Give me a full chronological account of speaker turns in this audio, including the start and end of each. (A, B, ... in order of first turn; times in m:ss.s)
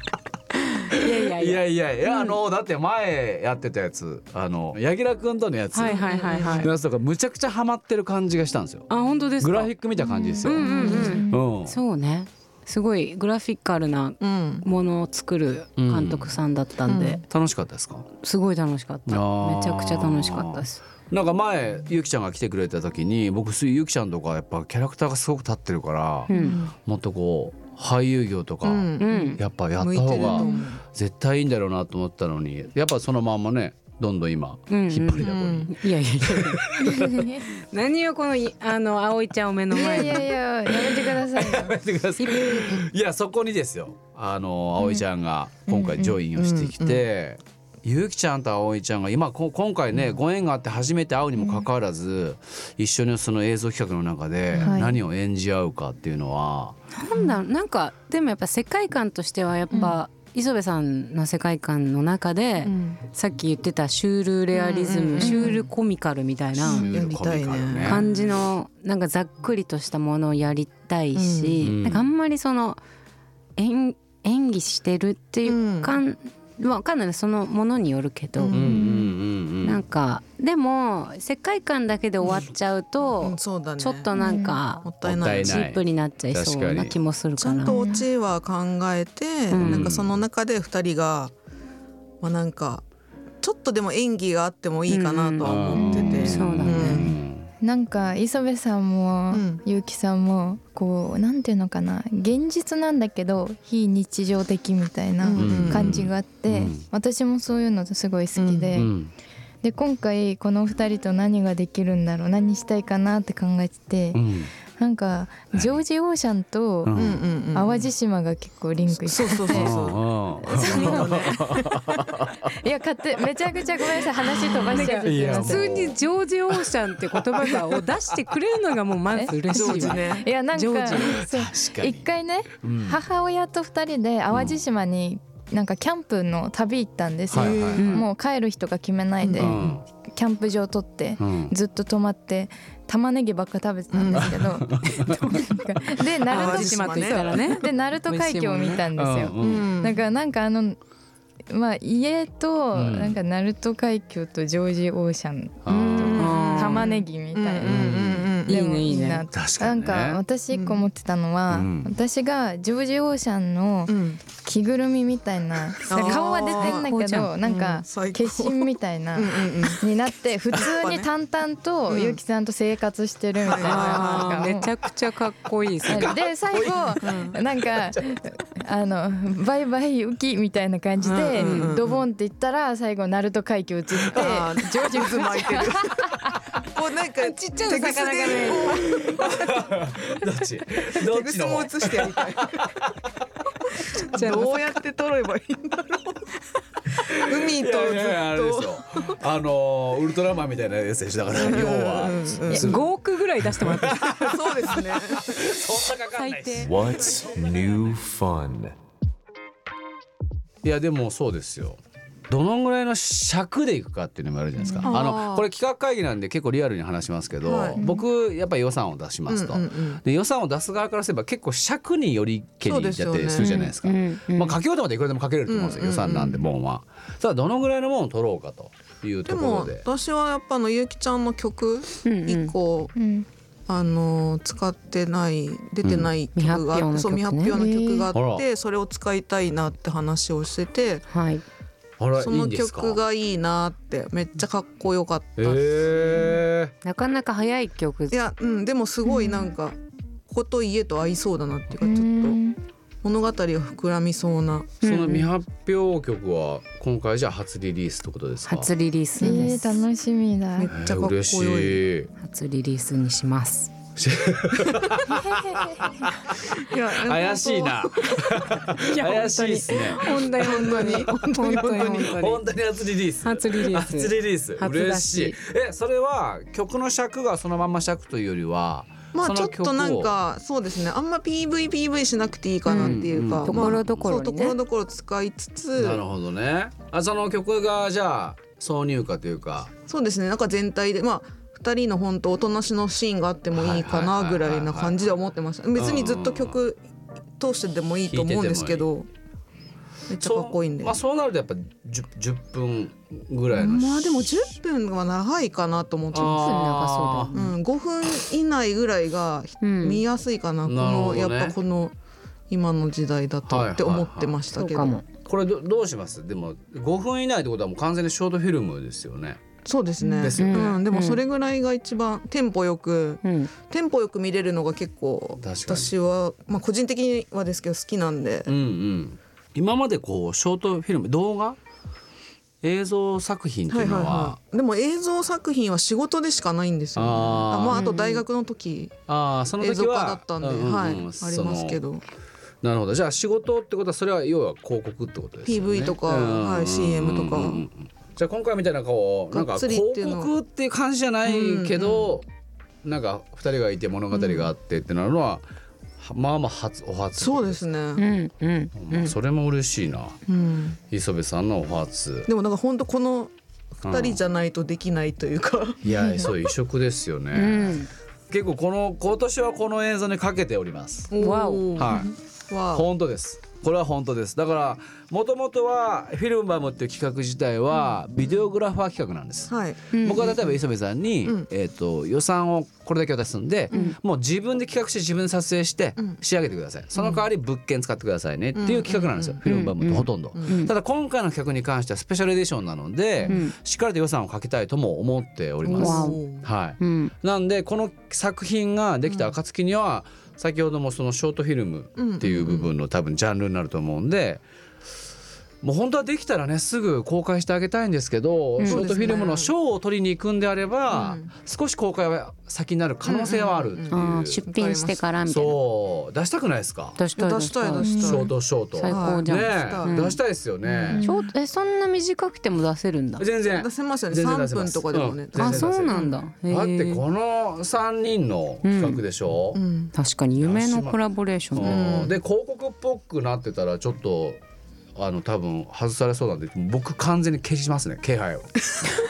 0:00.6-0:02.3 A
0:01.3-0:08.9 B
0:05.7-0:06.7 A
0:05.9-0:06.7 C
0:08.9-0:09.7 A
0:09.4-0:11.8 B
0:10.1-0:11.4 D
0:10.4-0:17.2 A
0:10.6-0:11.2 C
0:14.2-0:14.6 C
0:15.8-0:16.4 B
0:16.9-0:17.2 C
0:17.3-0:18.1 B
0:18.2-0:20.8 A
0:19.1-0:26.3 B
0:26.3-0:26.6 A
0:26.3-0:26.7 C
0:26.8-0:37.4 B
0:28.6-0:30.8 C
0:29.0-0:29.4 A
0:30.3-0:30.5 D
0:34.7-0:36.6 A
0:35.2-0:35.7 C
0:36.8-0:37.4 D
0:37.6-0:40.3 A
0:39.7-0:41.8 D
0:40.7-0:56.8 B
0:42.2-0:42.8 A
0:45.7-0:46.2 D
0:46.3-0:47.0 C
0:54.6-0:55.0 D
0:56.9-1:06.9 A
0:59.7-1:00.0 C
1:02.6-1:03.0 C
1:04.5-1:05.7 C
1:06.6-1:08.0 B
1:06.7-1:08.2 C
1:07.8-1:12.8 A
1:11.1-1:11.6 C
1:11.6-1:12.0 B
1:13.6-1:18.8 A
1:15.4-1:16.0 C
1:18.4-1:18.9 C
1:18.5-1:19.8 B
1:19.6-1:27.8 A
1:23.2-1:24.1 C
1:24.1-1:24.6 D
1:24.8-1:25.6 C
1:25.0-1:27.0 B
1:27.4-1:31.3 C
1:27.6-1:28.0 D
1:29.5-1:29.9 A
1:29.6-1:30.2 B
1:32.2-1:32.8 C
1:33.4-1:37.1 C
1:34.9-1:37.1 A
1:35.4-1:37.5 B
1:35.8-1:37.1 D
1:37.6-1:48.9 D
1:39.3-1:39.6 C
1:45.2-1:46.0 C
1:45.4-1:46.8 B
1:48.4-1:48.7 C
1:48.7-1:49.1 B
1:49.6-1:54.2 D
1:54.1-1:54.5 B
1:54.7-1:57.0 D
1:55.5-1:55.8 B
1:56.8-1:57.2 B
1:57.0-1:57.9 C
1:57.5-1:59.9 D
1:58.9-2:01.5 C
1:59.5-2:02.3 B
2:00.5-2:01.1 D
2:02.5-2:05.8 D
2:04.7-2:11.2 A
2:05.0-2:06.0 B
2:09.1-2:30.8 D
2:09.5-2:10.3 C
2:11.0-2:12.0 B
2:12.6-2:13.0 B
2:14.3-2:14.6 B
2:17.3-2:18.0 B
2:17.3-2:17.8 C
2:17.8-2:18.1 A
2:19.2-2:19.6 C
2:19.4-2:19.8 B
2:21.2-2:21.5 B
2:23.9-2:24.6 C
2:24.1-2:25.3 B
2:26.2-2:27.5 C
2:26.3-2:28.9 A
2:28.9-2:29.7 B
2:29.4-2:30.0 C
2:31.5-2:37.9 D
2:32.7-2:33.2 B
2:35.6-2:36.3 B
2:35.7-2:36.9 A
2:36.0-2:38.6 C
2:37.6-2:38.3 B
2:38.5-2:39.2 A
2:38.5-2:54.7 D
2:39.3-2:40.2 B
2:40.5-2:40.8 C
2:41.5-2:41.9 B
2:43.9-2:44.2 C
2:45.8-2:46.9 C
2:45.9-2:47.3 A
2:47.4-2:49.8 C
2:50.5-2:51.1 C
2:51.9-2:52.2 C
2:53.4-2:54.5 C
2:53.5-2:56.2 A
2:55.8-3:05.7 D
2:57.0-2:57.4 C
3:01.0-3:01.8 A
3:01.1-3:02.0 C
3:04.1-3:09.6 C
3:04.6-3:05.7 A
3:07.2-3:08.9 A
3:08.8-3:12.9 B
3:10.9-3:12.6 C
3:13.9-3:16.2 C
3:14.0-3:14.7 A
3:17.0-3:22.9 B
3:17.1-3:19.2 C
3:21.3-3:22.7 C
3:22.5-3:24.1 A
3:23.5-3:26.7 B
3:24.0-3:25.3 C
3:26.2-3:26.7 A
3:26.6-3:28.8 E
3:30.6-3:31.8 B
3:32.3-3:49.8 B
3:34.8-3:35.4 C
3:37.4-3:37.8 C
3:39.3-3:40.0 C
3:42.6-3:43.5 C
3:43.4-3:44.6 A
3:45.5-3:46.4 C
3:49.3-3:52.9 C
3:52.0-3:52.5 A
3:52.9-3:53.3 D
3:53.7-4:01.0 C
3:55.8-3:56.1 B
3:56.3-3:57.6 A
3:57.5-3:58.1 D
3:58.1-3:58.4 B
4:01.1-4:01.4 A
4:02.0-4:03.0 B
4:02.2-4:06.4 C
4:05.4-4:06.7 B
4:06.8-4:08.2 A
4:08.1-4:09.8 C
4:09.0-4:09.5 D
4:10.3-4:12.4 C
4:11.8-4:12.6 D
4:13.0-4:14.7 C
4:14.8-4:15.3 A
4:14.8-4:18.7 B
4:18.4-4:19.8 A
4:19.2-4:20.7 D
4:19.2-4:19.5 C
4:20.5-4:21.8 C
4:20.7-4:22.1 B
4:22.2-4:23.7 A
4:24.0-4:30.1 B
4:25.1-4:26.0 D
4:26.4-4:28.6 C
4:28.8-4:32.4 A
4:30.0-4:32.2 C
4:31.9-4:40.1 B
4:33.2-4:35.4 A
4:39.1-4:46.0 C
4:42.7-4:44.0 B
4:42.7-4:44.6 A
4:45.8-4:49.7 B
4:49.9-4:56.8 C
4:53.5-4:55.0 B
4:55.7-4:56.6 B
4:57.4-4:59.1 C
4:58.1-4:58.9 B
5:00.1-5:01.0 C
5:00.1-5:04.5 B
5:03.5-5:06.4 C
5:06.1-5:07.3 B
5:06.2-5:07.5 A
5:07.3-5:11.9 C
5:09.6-5:10.0 A
5:10.6-5:11.6 B
5:12.5-5:15.0 C
5:13.4-5:14.4 B
5:14.5-5:15.0 A
5:15.2-5:19.4 B
5:19.6-5:28.5 C
5:20.0-5:21.2 A
5:20.2-5:20.8 B
5:23.2-5:23.5 A
5:25.4-5:25.9 B
5:28.5-5:31.6 B
5:32.6-5:34.4 B
5:33.7-5:38.9 C
5:37.0-5:37.9 B
5:37.7-5:38.2 A
5:39.1-5:41.8 B
5:39.6-5:42.0 C
5:42.6-5:52.2 B
5:45.4-5:47.6 C
5:49.3-5:50.3 C
5:51.2-5:52.1 C
5:52.8-5:55.4 B
5:54.1-5:54.5 C
5:56.0-5:57.6 B
5:57.2-5:58.0 C
5:58.0-5:59.1 A
5:58.7-6:00.2 B
6:00.3-6:00.8 C
6:00.9-6:02.3 B
6:02.3-6:05.8 C
6:03.8-6:04.2 B
6:05.8-6:11.1 B
6:07.3-6:07.9 A
6:11.1-6:12.8 C
6:11.2-6:11.8 A
6:11.8-6:12.1 B
6:12.7-6:44.4 B
6:19.5-6:20.6 C
6:19.9-6:20.3 A
6:23.7-6:24.0 A
6:27.0-6:27.2 C
6:28.6-6:29.4 C
6:29.4-6:30.7 A
6:30.3-6:30.6 C
6:33.3-6:33.5 A
6:35.6-6:36.2 A
6:35.7-6:36.4 C
6:36.8-6:37.1 A
6:39.1-6:39.3 C
6:42.0-6:42.7 C
6:45.6-6:54.4 B
6:48.6-6:49.1 A
6:48.6-6:49.5 C
6:50.9-6:51.3 C
6:53.0-6:53.9 C
6:53.9-6:55.6 A
6:54.4-6:55.0 C
6:55.3-6:57.0 B
6:57.0-7:00.2 A
6:57.2-6:58.3 C
6:57.8-6:58.2 D
6:58.0-7:01.0 B
6:58.9-7:00.1 C
7:00.6-7:01.0 C
7:00.9-7:01.3 D
7:01.0-7:03.2 A
7:03.2-7:09.6 B
7:03.5-7:06.2 C
7:05.3-7:07.0 A
7:08.6-7:09.0 A
7:09.5-7:09.9 C
7:09.9-7:12.0 A
7:10.4-7:11.0 B
7:11.5-7:14.4 B
7:11.6-7:12.1 C
7:15.0-7:18.7 B